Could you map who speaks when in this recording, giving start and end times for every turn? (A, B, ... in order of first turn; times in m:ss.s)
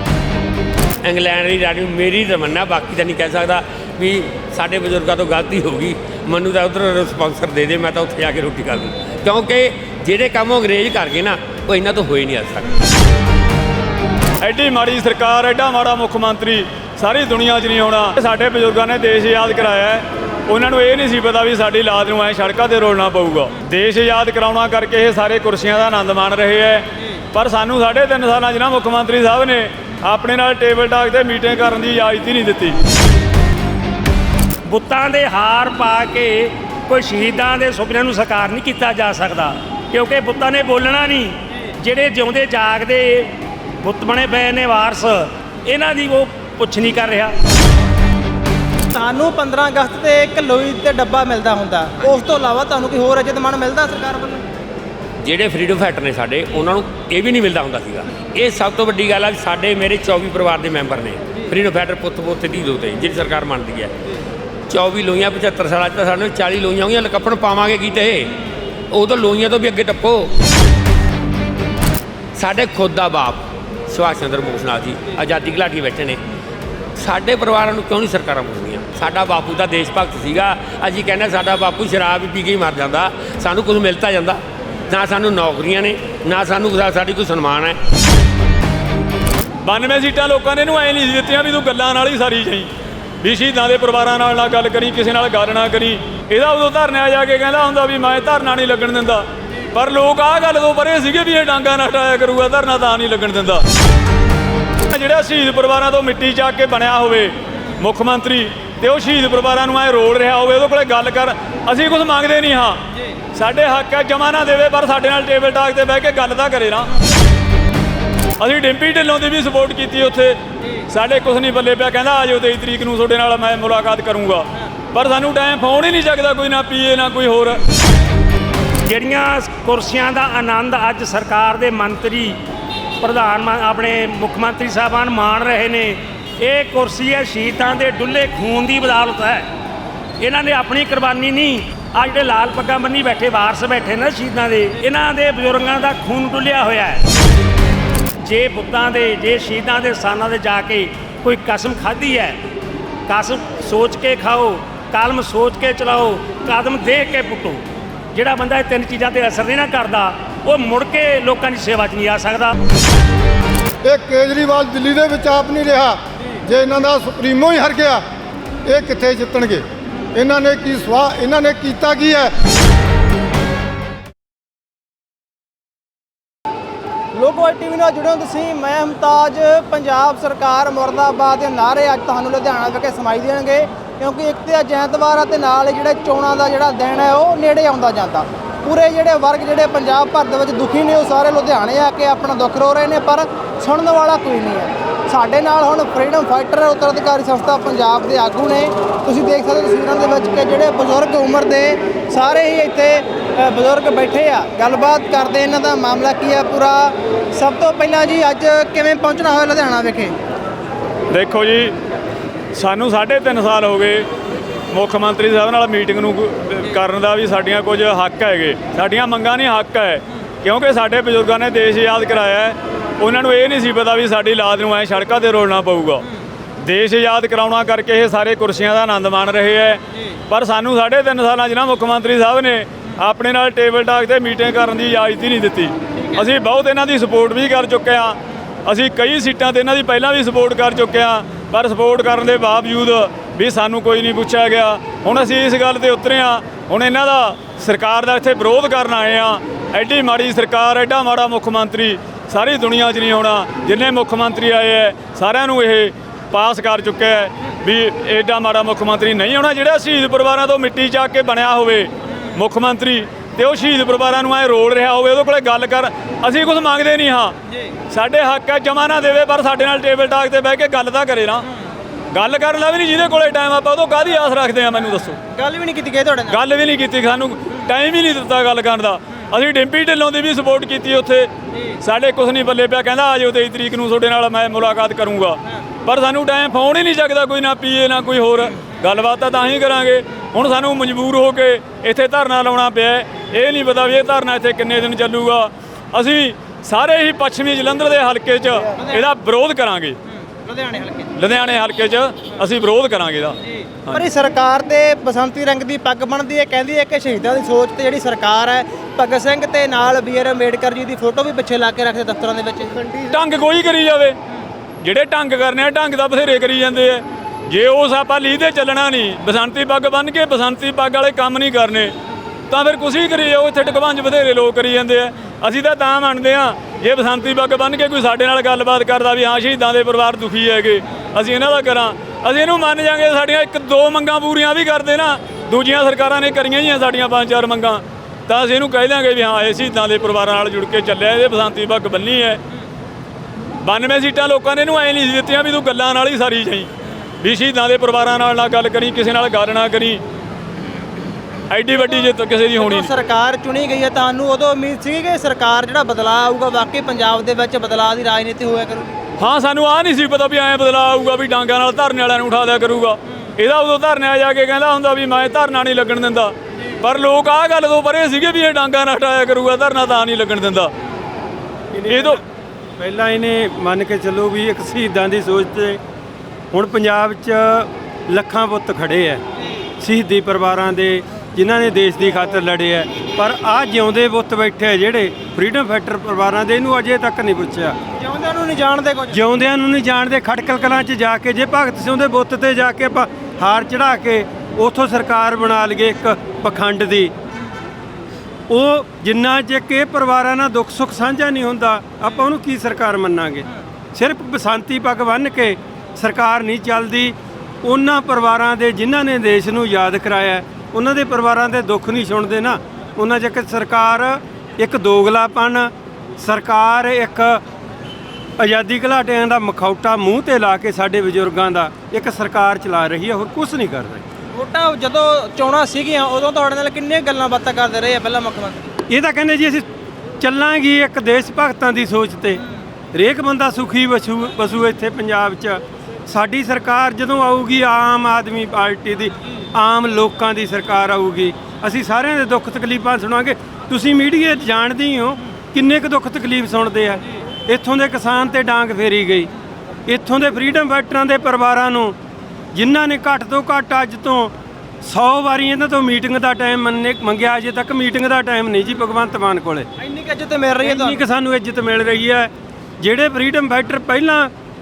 0:01.0-0:12.7 A
0:14.4-0:32.8 B
0:34.6-0:47.3 C
0:48.9-0:54.4 D
0:55.2-1:03.9 A
1:04.7-1:08.3 A
1:08.9-1:10.3 A
1:12.4-1:16.2 A
1:17.0-1:27.8 A
1:29.6-1:32.7 B
1:33.2-1:43.6 B
1:44.9-1:52.8 B
1:53.3-1:56.9 B
1:58.4-2:07.6 B
2:08.8-2:12.4 C
2:13.0-2:19.5 C
2:20.2-2:27.0 C
2:28.2-2:32.4 C
2:33.1-2:42.6 C
2:43.8-2:48.1 E
2:48.6-2:52.4 E
2:57.1-3:30.1 D
3:31.1-3:31.8 B
3:32.6-3:34.1 B
3:34.7-3:46.0 B
3:46.6-4:27.4 B
3:56.0-3:56.2 D
4:27.9-4:31.5 B
4:32.1-4:35.2 B
4:35.3-4:36.4 D
4:36.3-4:41.3 B
4:41.8-5:00.0 B
4:58.7-4:59.1 D
5:00.4-5:01.2 D
5:01.2-5:04.0 B
5:03.5-5:13.1 D
5:13.1-5:14.2 B
5:14.8-5:21.9 B
5:22.5-5:42.4 B
5:43.6-5:46.7 B
5:47.2-5:50.0 B
5:51.5-5:52.9 B
5:52.5-5:58.9 D
5:59.2-6:10.7 B
6:11.7-6:12.2 F
6:11.9-6:12.2 B
6:12.8-6:15.8 F
6:16.5-6:19.2 F
6:19.8-6:27.8 F
6:27.9-6:29.2 D
6:29.1-6:37.1 F
6:38.5-6:57.4 F
6:58.4-7:04.0 F
7:04.3-7:08.7 D
7:08.9-7:09.6 F
7:10.2-7:12.4 F
7:12.9-7:29.3 F
7:29.9-7:32.0 F
7:32.5-7:39.7 F
7:39.8-7:41.0 D
7:40.6-7:44.3 F